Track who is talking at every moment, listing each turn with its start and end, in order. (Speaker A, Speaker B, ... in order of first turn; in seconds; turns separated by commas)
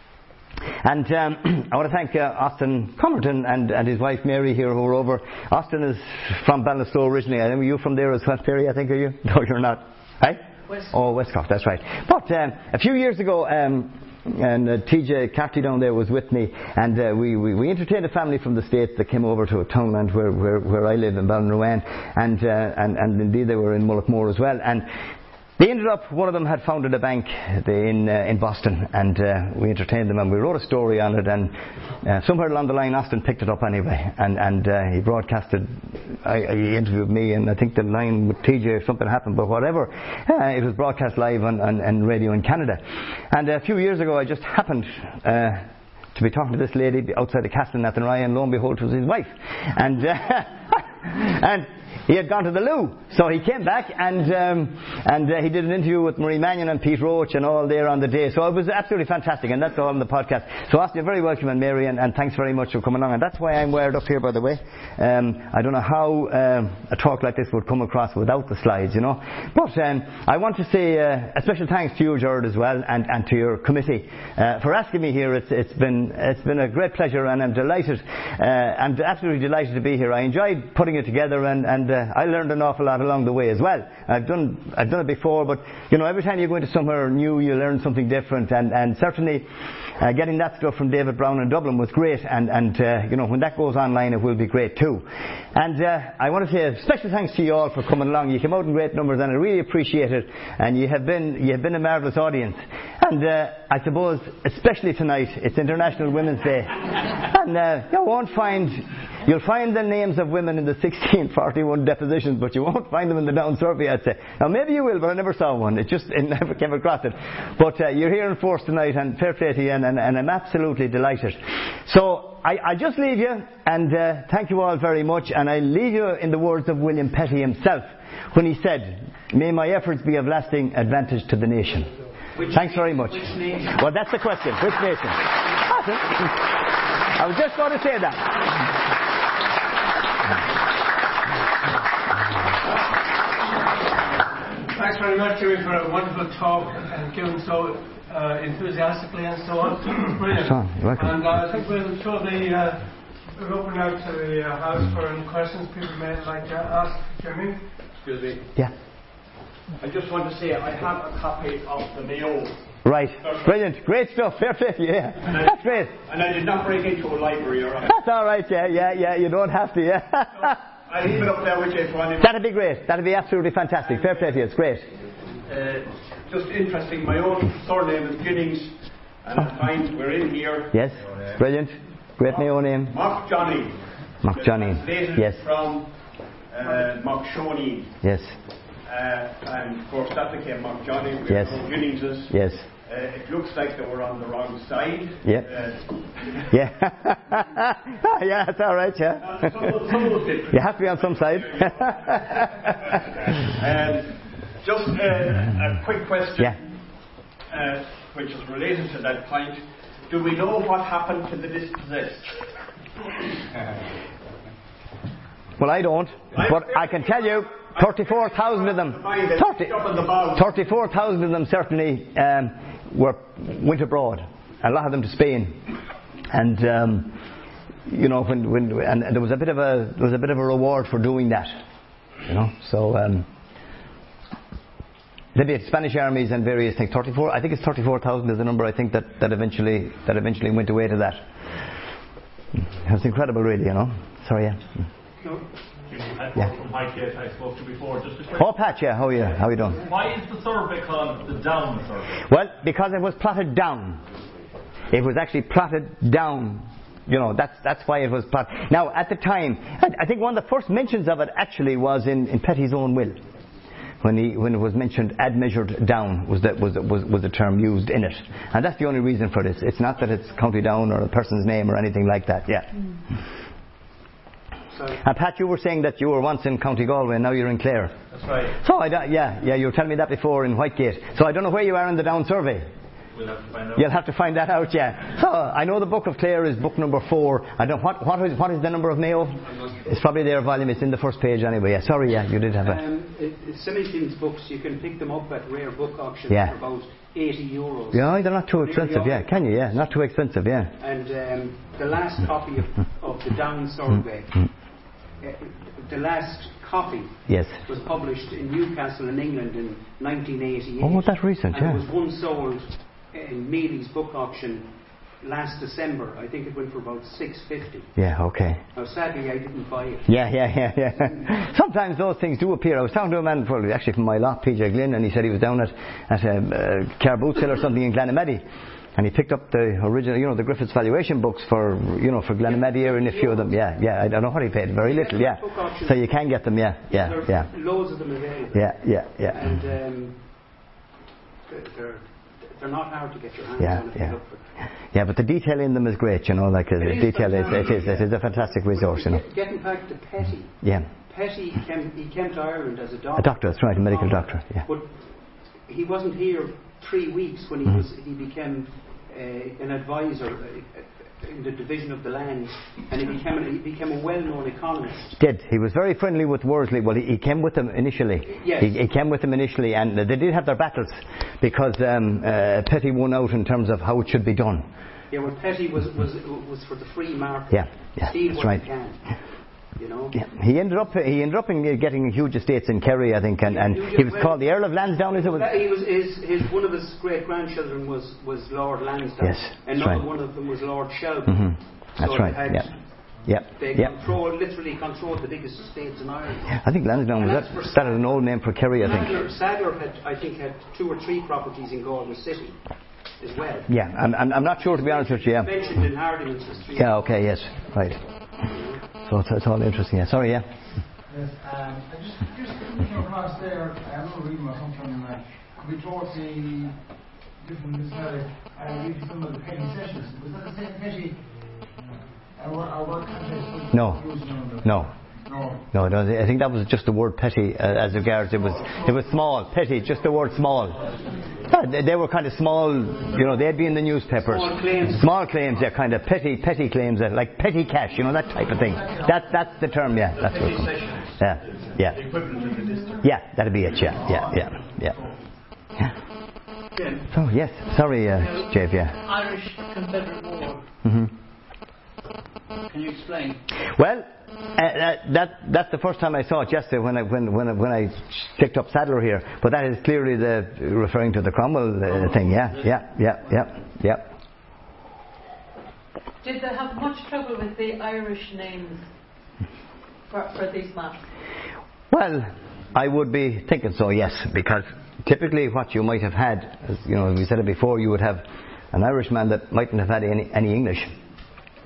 Speaker A: 0.8-24.9, Speaker A: 25.6-89.5, Speaker A: 90.0-131.9, Speaker B: 132.3-133.8, Speaker A: 132.5-138.7, Speaker C: 144.7-157.7, Speaker A: 150.3-151.3, Speaker D: 158.0-158.5, Speaker D: 159.8-162.7, Speaker A: 162.8-165.9, Speaker D: 163.2-163.5, Speaker D: 165.2-167.9, Speaker A: 167.9-170.6, Speaker D: 170.8-172.3, Speaker A: 172.2-174.9, Speaker D: 175.4-181.2, Speaker A: 180.7-182.9, Speaker D: 182.9-188.0, Speaker A: 184.2-185.4, Speaker A: 188.0-188.4, Speaker D: 188.7-196.4, Speaker A: 191.3-192.7, Speaker A: 195.2-195.5, Speaker A: 196.5-199.8, Speaker D: 199.2-212.4, Speaker A: 200.5-202.9, Speaker A: 215.6-219.8, Speaker D: 216.3-220.5, Speaker A: 220.3-225.6, Speaker A: 226.3-227.2, Speaker A: 227.9-231.5, Speaker A: 232.2-233.3, Speaker A: 235.3-241.2, Speaker A: 242.7-244.7, Speaker B: 245.2-245.5, Speaker E: 245.8-248.6, Speaker A: 248.3-249.8, Speaker E: 249.8-252.2, Speaker A: 252.3-254.0, Speaker A: 254.9-263.2, Speaker A: 264.0-272.8, Speaker B: 274.7-275.0, Speaker A: 275.0-277.9, Speaker E: 278.1-278.6, Speaker A: 278.5-282.7, Speaker E: 283.1-283.9, Speaker A: 283.7-292.8, Speaker B: 292.6-299.4, Speaker A: 297.9-300.7, Speaker B: 300.8-318.1, Speaker A: 307.3-307.6, Speaker A: 310.8-311.8, Speaker A: 317.9-318.6, Speaker B: 318.7-320.2, Speaker A: 320.1-328.4, Speaker A: 328.9-337.8, Speaker B: 332.4-333.7, Speaker B: 334.8-340.6, Speaker A: 338.5-339.4, Speaker B: 341.5-344.4, Speaker A: 343.6-349.2, Speaker B: 346.8-365.2, Speaker A: 353.2-354.7, Speaker A: 365.2-374.7, Speaker B: 368.2-368.8, Speaker B: 375.1-380.3, Speaker A: 377.5-378.6, Speaker A: 380.1-385.5, Speaker B: 383.4-403.7, Speaker A: 389.2-390.0, Speaker A: 391.3-393.9, Speaker A: 396.6-399.2, Speaker A: 403.7-405.5, Speaker B: 404.5-407.2, Speaker A: 406.7-408.4, Speaker B: 408.4-408.8, Speaker A: 409.0-410.5, Speaker F: 411.0-425.7, Speaker A: 423.7-430.9, Speaker A: 431.4-442.0, Speaker B: 434.2-435.1, Speaker F: 438.7-439.2, Speaker E: 440.1-443.0, Speaker A: 443.0-445.0, Speaker F: 444.0-445.2, Speaker D: 446.7-447.0, Speaker A: 447.1-449.0, Speaker G: 449.0-450.6, Speaker A: 450.8-451.1, Speaker A: 453.8-464.1, Speaker E: 462.0-462.6, Speaker G: 466.2-468.8, Speaker G: 470.1-471.0, Speaker A: 471.9-480.9